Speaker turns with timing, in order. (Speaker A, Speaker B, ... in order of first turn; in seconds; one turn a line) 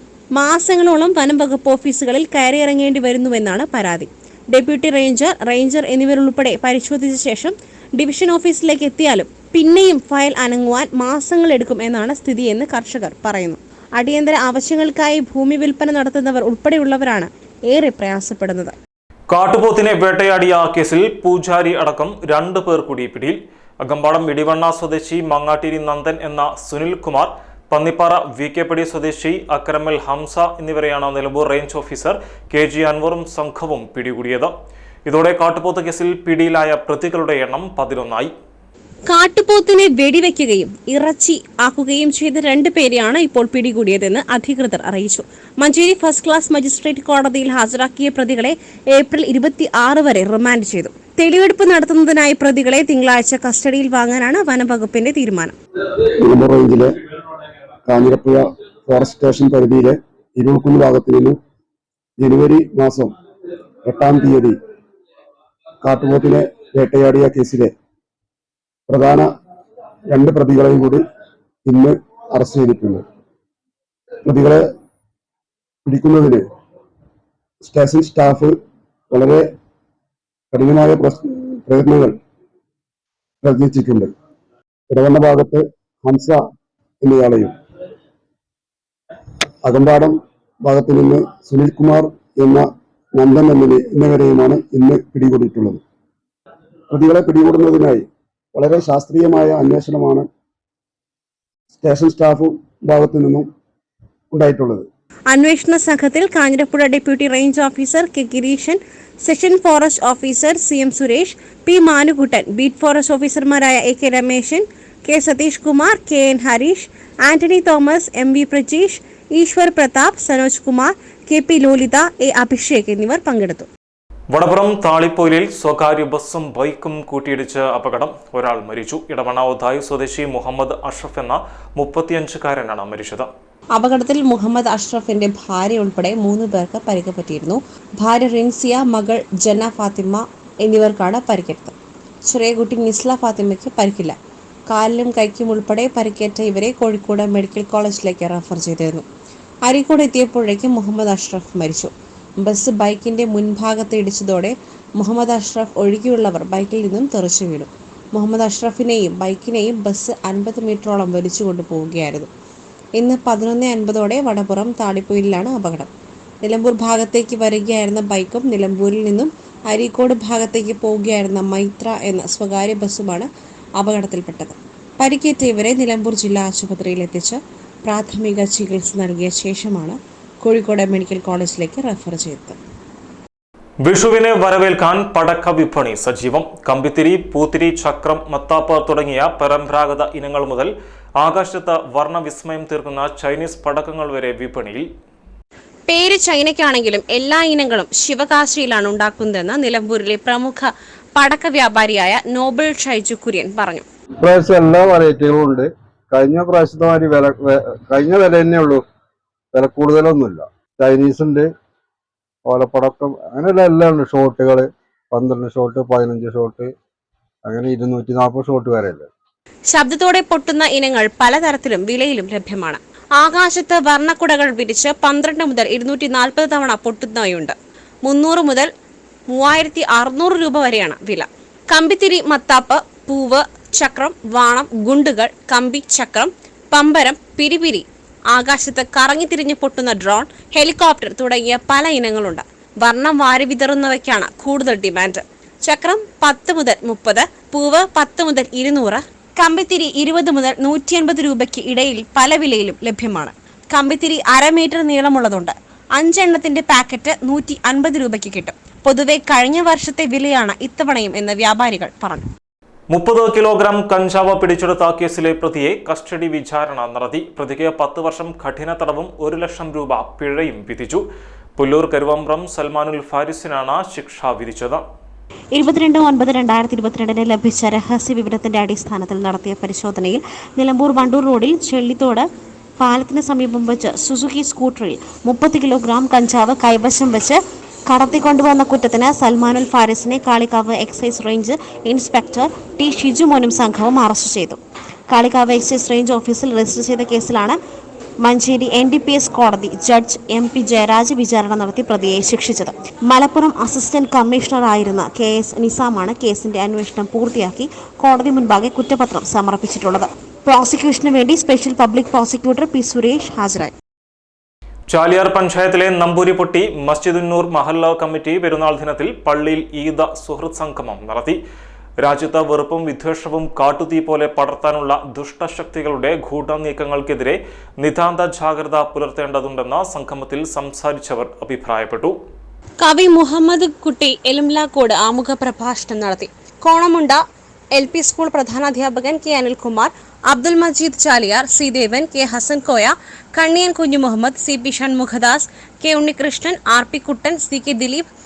Speaker A: 0.3-18.8
Speaker B: 19.3-34.5
Speaker B: 35.1-38.3
Speaker A: 39.1-55.5
Speaker C: 56.2-56.9
Speaker C: 57.9-61.4
Speaker C: 62.2-63.1
Speaker C: 63.9-64.6
Speaker C: 65.8-67.7
Speaker C: 68.9-69.3
Speaker C: 70.1-71.0
Speaker C: 71.7-73.0
Speaker C: 74.3-74.7
Speaker C: 75.9-76.4
Speaker C: 77.6-78.6
Speaker C: 79.1-79.5
Speaker C: 80.5-82.2
Speaker C: 83.4-84.1
Speaker C: 84.9-86.4
Speaker C: 87.0-87.5
Speaker C: 89.7-95.8
Speaker C: 96.9-100.3
Speaker C: 101.8-103.5
Speaker C: 104.3-104.9
Speaker A: 105.3-123.7
Speaker B: 124.3-133.3
Speaker A: 133.8-141.7
Speaker A: 142.3-144.2
Speaker A: 144.7-149.0
Speaker A: 149.7-162.3
Speaker A: 163.0-165.9
Speaker A: 166.4-173.3
Speaker A: 173.8-182.6
Speaker B: 183.8-194.9
Speaker A: 195.9-203.8
Speaker D: 204.2-208.8
Speaker D: 209.5-211.5
Speaker D: 212.5-216.7
Speaker D: 217.4-219.1
Speaker A: 219.7-228.7
Speaker A: 229.3-262.2
Speaker B: 262.9-271.0
Speaker B: 271.6-274.8
Speaker A: 275.5-282.3
Speaker A: 282.8-294.6
Speaker A: 295.1-297.6
Speaker A: 298.2-313.8
Speaker B: 314.9-321.4
Speaker B: 322.0-332.1
Speaker A: 332.8-337.2
Speaker A: 337.7-348.1